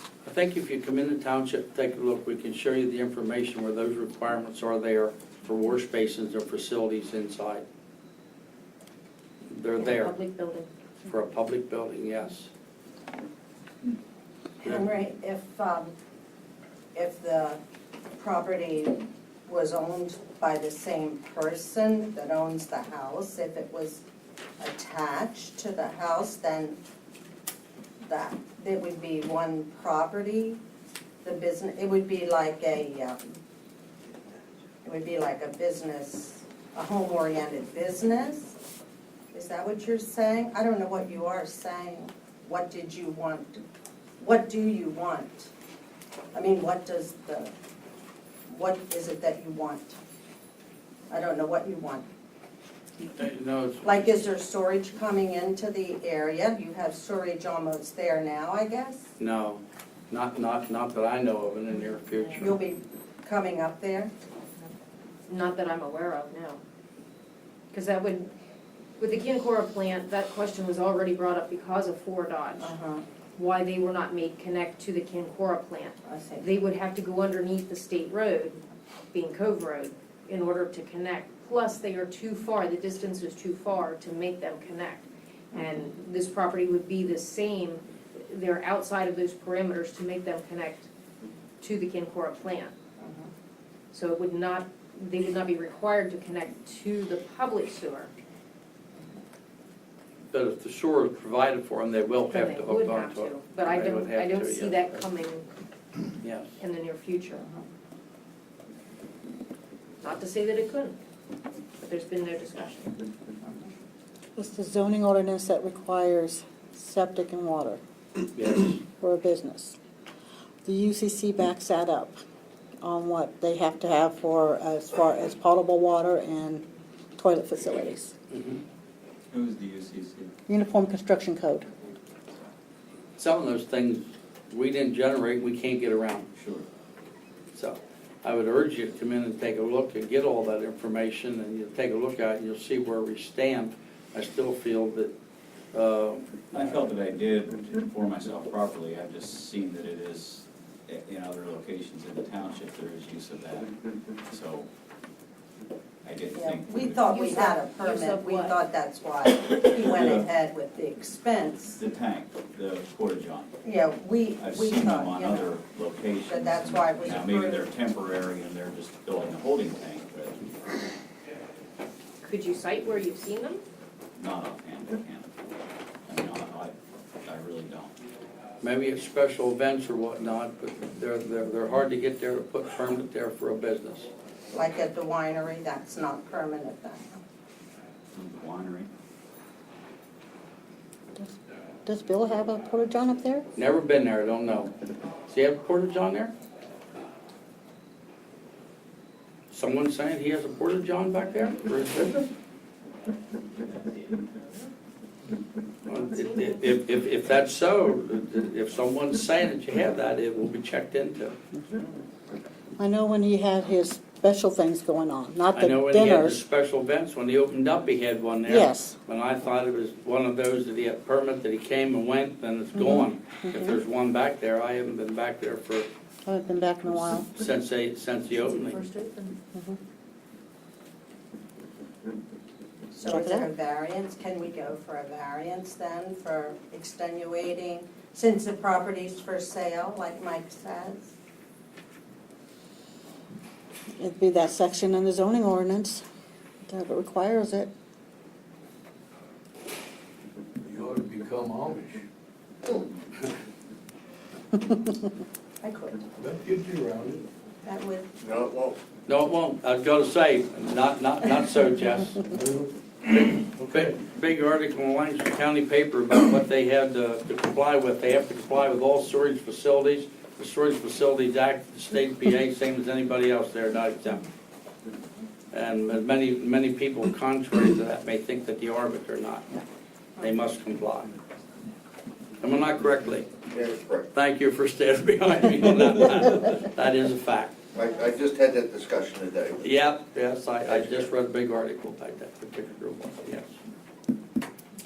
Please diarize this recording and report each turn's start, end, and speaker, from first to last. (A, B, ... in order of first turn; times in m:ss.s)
0:00.2-0:07.6 A
0:09.5-0:10.1 A
0:09.8-0:10.7 B
0:11.1-0:12.5 A
0:14.6-0:15.9 C
0:16.9-0:17.6 C
0:18.2-0:24.0 C
0:24.6-0:26.8 C
0:28.0-0:30.6 C
0:31.2-0:33.3 C
0:34.8-0:38.6 C
0:39.3-0:43.6 C
0:44.2-0:45.5 C
0:46.3-0:47.5 C
0:48.5-0:50.0 C
0:51.1-0:52.1 C
0:53.0-0:54.3 A
0:53.8-0:59.1 C
0:59.2-1:02.5 A
1:02.4-1:04.1 C
1:05.3-1:06.6 B
1:07.7-1:08.3 B
1:09.0-1:12.7 B
1:12.6-1:13.0 C
1:13.4-1:18.6 B
1:16.0-1:16.4 C
1:19.1-1:30.9 B
1:31.6-1:32.7 B
1:33.0-1:33.3 C
1:33.9-1:38.1 B
1:40.3-1:45.0 A
1:42.3-1:45.5 B
1:46.2-1:46.5 A
1:46.6-1:47.5 B
1:50.0-1:51.0 B
1:51.8-1:53.0 B
1:54.4-1:57.8 D
1:58.3-1:58.8 A
1:58.8-1:59.8 D
2:00.6-2:02.2 D
2:02.8-2:06.6 D
2:07.2-2:08.1 D
2:08.3-2:08.6 A
2:09.3-2:10.3 E
2:10.5-2:11.7 D
2:13.2-2:16.3 A
2:16.3-2:16.7 E
2:17.5-2:25.1 A
2:25.7-2:26.8 A
2:26.5-2:33.7 E
2:34.3-2:34.7 E
2:36.0-2:37.0 E
2:36.3-2:41.8 C
2:37.1-2:38.6 B
2:40.0-2:40.2 E
2:41.8-2:43.5 E
2:43.6-2:45.6 C
2:44.4-2:50.4 E
2:46.3-2:47.7 C
2:52.2-2:53.6 B
2:54.2-2:55.3 E
2:56.0-2:57.9 E
2:58.6-3:04.1 A
3:04.5-3:07.2 C
3:08.1-3:08.9 E
3:11.2-3:13.4 D
3:13.6-3:14.7 A
3:15.2-3:16.3 A
3:19.5-3:22.3 A
3:25.8-3:31.4 A
3:32.8-3:36.4 D
3:35.5-3:45.9 A
3:38.5-3:39.0 D
3:42.7-3:43.8 D
3:46.2-3:47.3 D
3:47.4-3:48.9 A
3:49.3-3:49.8 D
3:52.9-4:01.1 C
3:53.0-3:53.5 D
4:04.0-4:06.0 D
4:06.7-4:07.7 D
4:10.6-4:12.0 F
4:15.6-4:16.1 C
4:16.2-4:17.3 F
4:17.6-4:18.1 C
4:18.2-4:18.8 G
4:19.1-4:22.4 A
4:22.4-4:22.7 F
4:23.0-4:34.3 A
4:35.5-4:39.6 A
4:40.2-4:41.1 A
4:42.4-4:43.4 A
4:43.5-4:44.1 G
4:44.1-4:47.6 A
4:47.7-4:49.7 G
4:49.6-4:53.6 A